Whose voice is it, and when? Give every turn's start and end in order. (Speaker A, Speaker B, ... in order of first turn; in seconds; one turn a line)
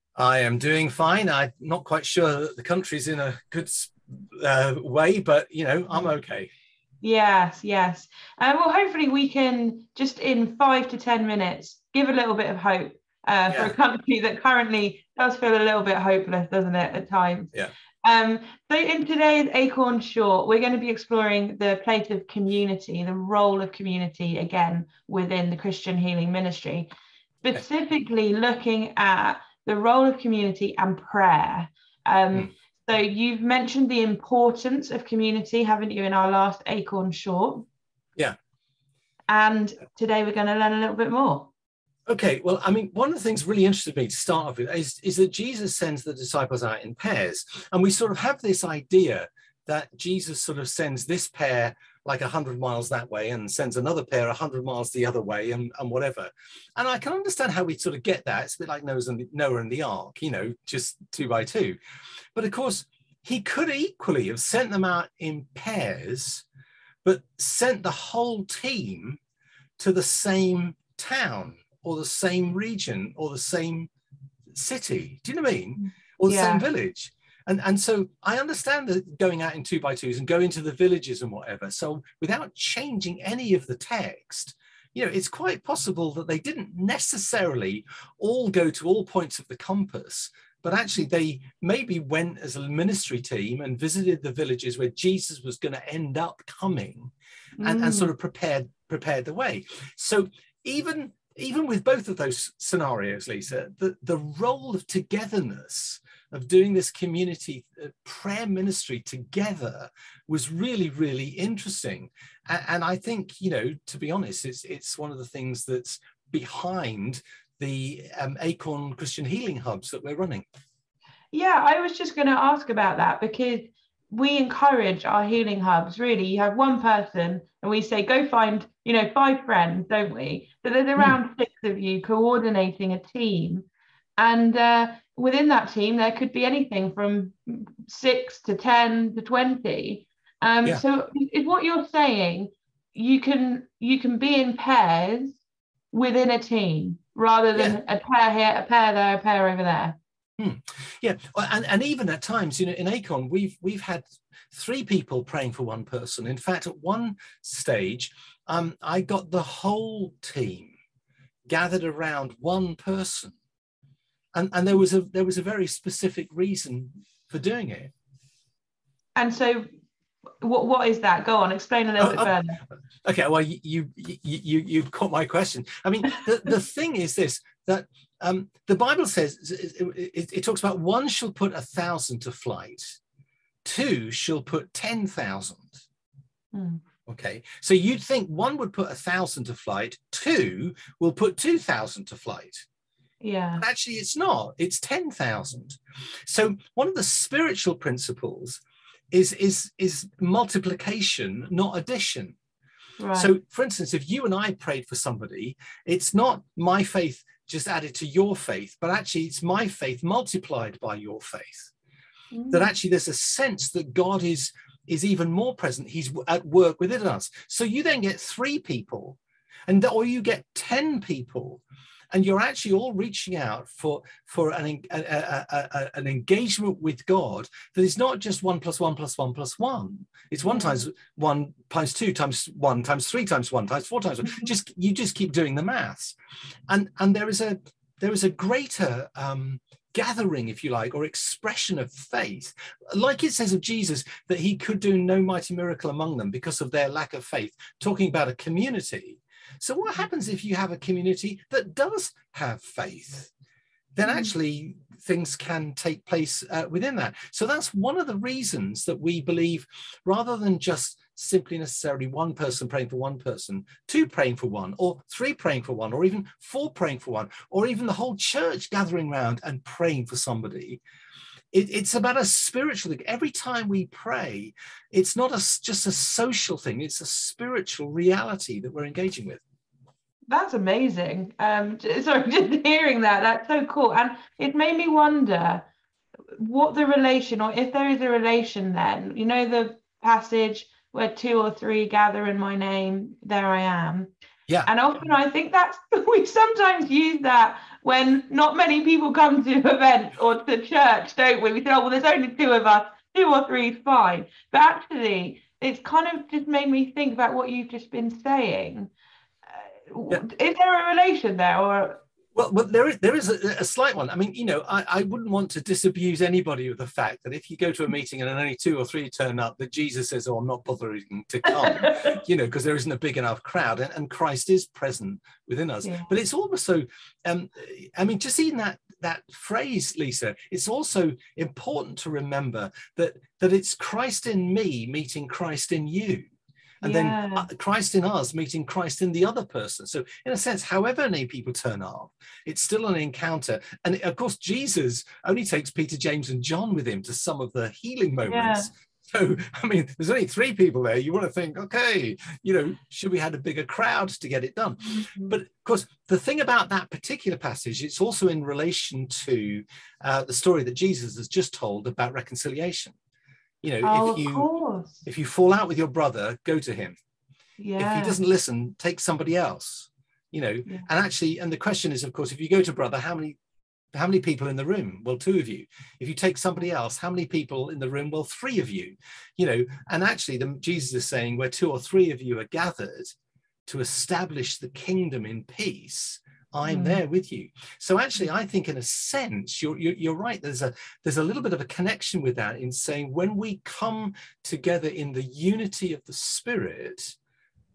Speaker A: 0.2-6.5
Speaker B: 7.0-17.5
Speaker A: 13.5-13.7
Speaker B: 18.0-26.9
Speaker B: 27.4-37.6
Speaker B: 39.3-41.5
Speaker A: 42.1-61.8
Speaker A: 62.3-66.4
Speaker A: 67.0-69.2
Speaker A: 69.8-73.9
Speaker A: 74.5-120.4
Speaker B: 76.3-76.7
Speaker B: 97.6-98.1
Speaker B: 121.3-133.7
Speaker B: 134.2-145.4
Speaker B: 145.9-150.0
Speaker A: 147.5-147.8
Speaker A: 150.4-160.7
Speaker A: 161.5-163.3
Speaker A: 164.3-167.9
Speaker B: 169.2-169.7
Speaker B: 170.4-172.6
Speaker A: 172.0-172.3
Speaker A: 173.0-183.0
Speaker A: 183.6-185.8
Speaker B: 186.5-186.8
Speaker A: 187.1-192.6
Speaker B: 193.2-193.6
Speaker A: 193.6-202.3
Speaker B: 203.0-203.3
Speaker A: 203.1-211.7
Speaker B: 212.3-212.7
Speaker A: 212.5-236.2
Speaker B: 230.4-230.8
Speaker A: 236.7-253.3
Speaker A: 253.9-270.8
Speaker B: 254.0-254.3
Speaker A: 271.5-279.4
Speaker B: 280.3-285.6
Speaker B: 286.4-294.1
Speaker B: 294.6-308.9
Speaker B: 309.5-312.0
Speaker A: 312.3-336.3
Speaker B: 321.5-322.2
Speaker B: 325.8-326.1
Speaker B: 336.8-337.5
Speaker A: 336.8-362.9
Speaker B: 348.3-348.7
Speaker B: 354.8-355.3
Speaker A: 363.6-364.5
Speaker B: 363.8-365.0
Speaker A: 365.0-367.0
Speaker B: 367.6-368.2
Speaker A: 367.8-373.4
Speaker A: 373.9-383.1
Speaker A: 383.7-397.1
Speaker B: 386.7-387.0